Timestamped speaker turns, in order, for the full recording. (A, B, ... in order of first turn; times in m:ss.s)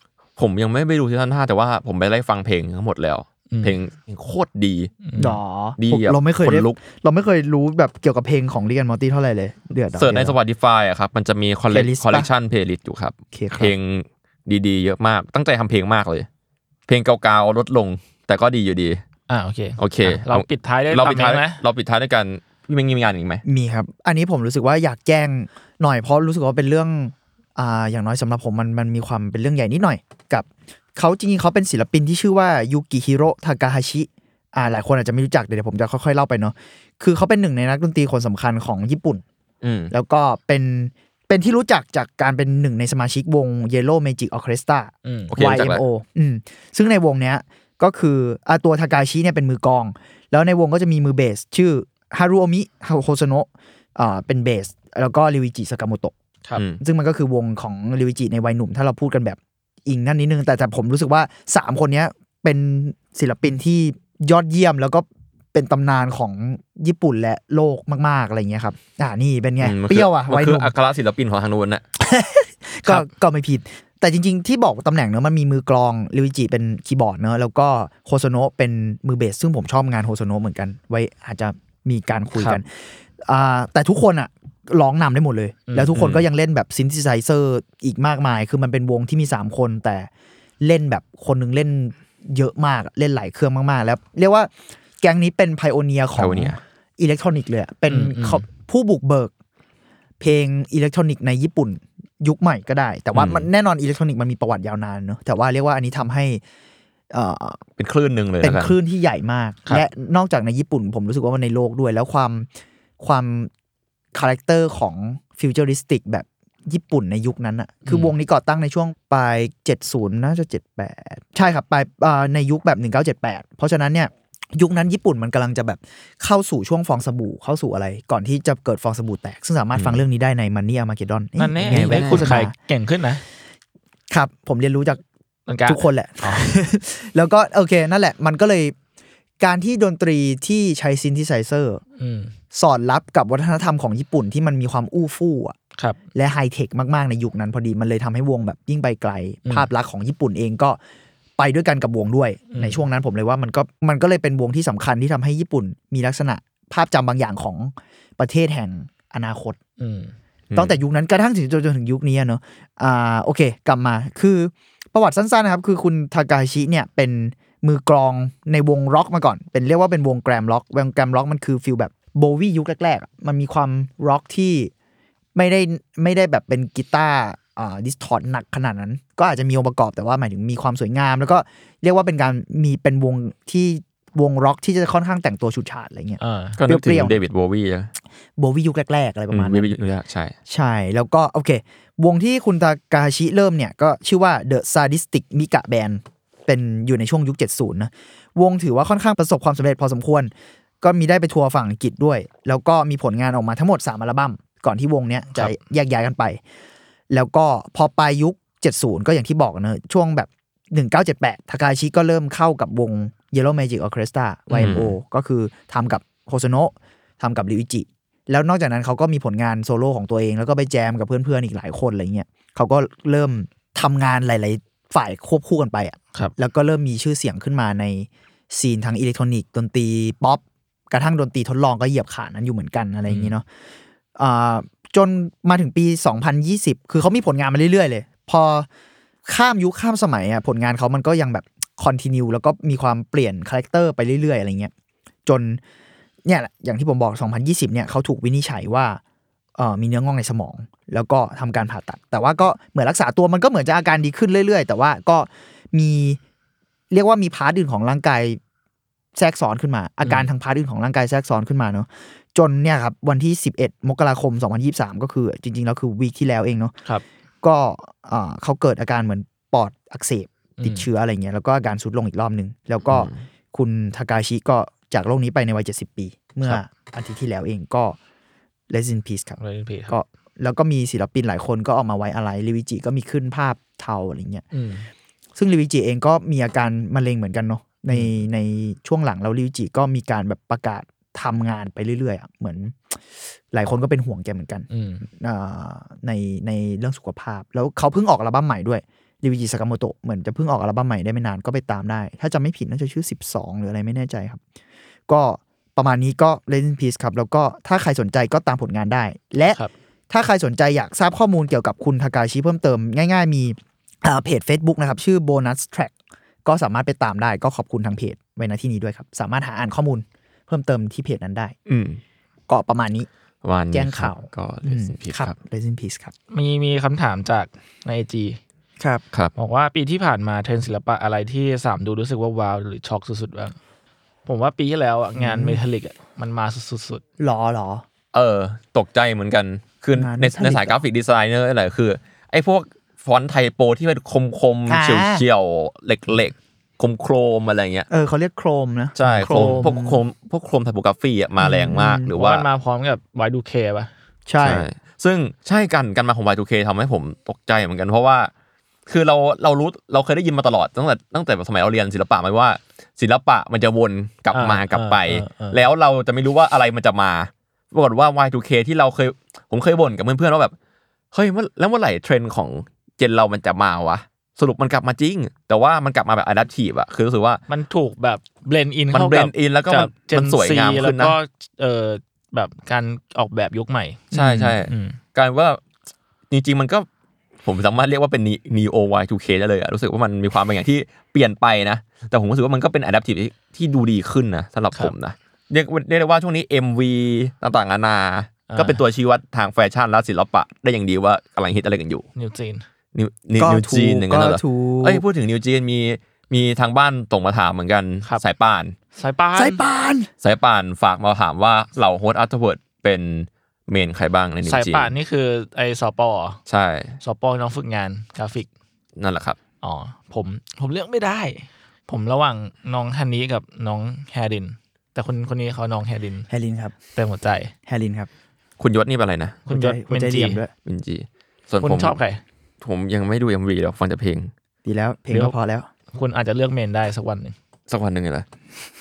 0:00.4-0:04.9 A
0:03.5-0:03.8 B
0:05.0-0:05.4 B
0:05.2-0:10.4 C
0:05.8-0:06.8 A
0:10.0-0:16.3 A
0:11.7-0:12.3 C
0:13.3-0:13.7 C
0:16.9-0:19.0 A
0:19.3-0:21.6 B
0:19.8-0:23.4 A
0:23.4-0:39.2 C
0:39.6-0:39.9 A
0:39.9-0:56.1 C
0:45.0-0:45.3 B
0:45.3-0:45.8 A
0:56.8-1:10.7 C
1:09.6-1:11.8 A
1:12.0-1:30.1 C
1:25.7-1:25.9 B
1:25.9-1:26.2 A
1:30.6-1:39.3 C
1:36.2-1:36.6 A
1:37.9-1:38.4 B
1:40.2-1:46.4 C
1:43.1-1:43.5 A
1:47.1-1:47.6 C
1:47.8-1:48.7 A
1:48.4-1:52.5 C
1:53.0-1:53.5 C
1:54.1-2:12.5 C
2:09.7-2:10.0 A
2:11.4-2:13.2 B
2:11.7-2:12.3 A
2:14.1-2:15.0 C
2:15.5-2:16.5 B
2:15.6-2:18.7 C
2:19.4-2:21.8 C
2:22.0-2:22.3 B
2:22.5-2:25.5 C
2:26.1-2:30.8 C
2:31.4-2:39.6 C
2:32.5-2:32.8 B
2:39.8-2:40.1 B
2:40.5-2:54.7 C
2:55.3-3:07.2 C
3:06.2-3:06.6 B
3:06.6-3:07.9 A
3:08.4-3:09.8 C
3:09.3-3:10.3 A
3:10.5-3:26.4 C
3:27.1-3:53.4 C
3:34.5-3:34.9 A
3:53.1-3:53.3 B
3:54.1-3:58.7 C
3:59.2-4:04.7 C
4:05.2-4:05.6 C
4:06.2-4:09.0 C
4:09.6-4:16.2 C
4:16.9-4:18.4 C
4:19.2-4:26.7 C
4:20.0-4:20.3 B
4:27.4-4:38.0 C
4:30.6-4:30.9 B
4:32.9-4:33.2 A
4:38.7-4:44.4 C
4:39.4-4:39.9 B
4:44.5-4:44.9 B
4:45.4-5:04.4 C
4:54.7-4:55.1 B
5:05.1-5:15.9 C
5:16.4-5:21.6 C
5:21.7-5:22.0 A
5:22.5-5:23.1 C
5:23.4-5:25.4 A
5:23.7-5:26.1 C
5:26.3-5:28.4 B
5:29.4-5:33.6 B
5:34.2-5:37.0 B
5:35.2-5:35.6 C
5:37.2-5:37.8 C
5:38.1-5:47.9 A
5:40.0-5:40.8 C
5:44.7-5:45.2 C
5:47.9-5:50.0 C
5:49.0-5:52.4 A
5:51.4-5:52.1 C
5:52.1-5:53.9 B
5:54.2-5:54.7 C
5:54.4-5:58.3 A
5:58.9-6:10.5 A
6:04.3-6:05.6 B
6:11.1-6:17.4 A
6:17.5-6:25.0 B
6:18.9-6:21.2 A
6:24.1-6:25.6 A
6:26.3-6:26.9 A
6:27.4-6:42.0 A
6:38.5-6:38.8 B
6:42.2-6:42.6 B
6:42.9-6:48.7 A
6:43.4-6:45.0 C
6:49.0-6:49.6 B
6:49.4-6:50.1 C
6:50.2-6:54.9 A
6:54.4-6:56.4 B
6:56.5-6:57.0 A
6:57.0-6:58.5 B
6:59.0-6:59.4 A
6:59.6-7:06.3 B
7:06.3-7:06.7 C
7:07.0-7:07.5 B
7:07.7-7:08.1 C
7:08.6-7:09.4 A
7:09.4-7:10.4 B
7:09.5-7:10.5 C
7:10.6-7:12.0 A
7:11.6-7:12.2 B
7:12.6-7:14.3 A
7:14.6-7:15.7 C
7:15.9-7:17.3 B
7:17.7-7:18.2 A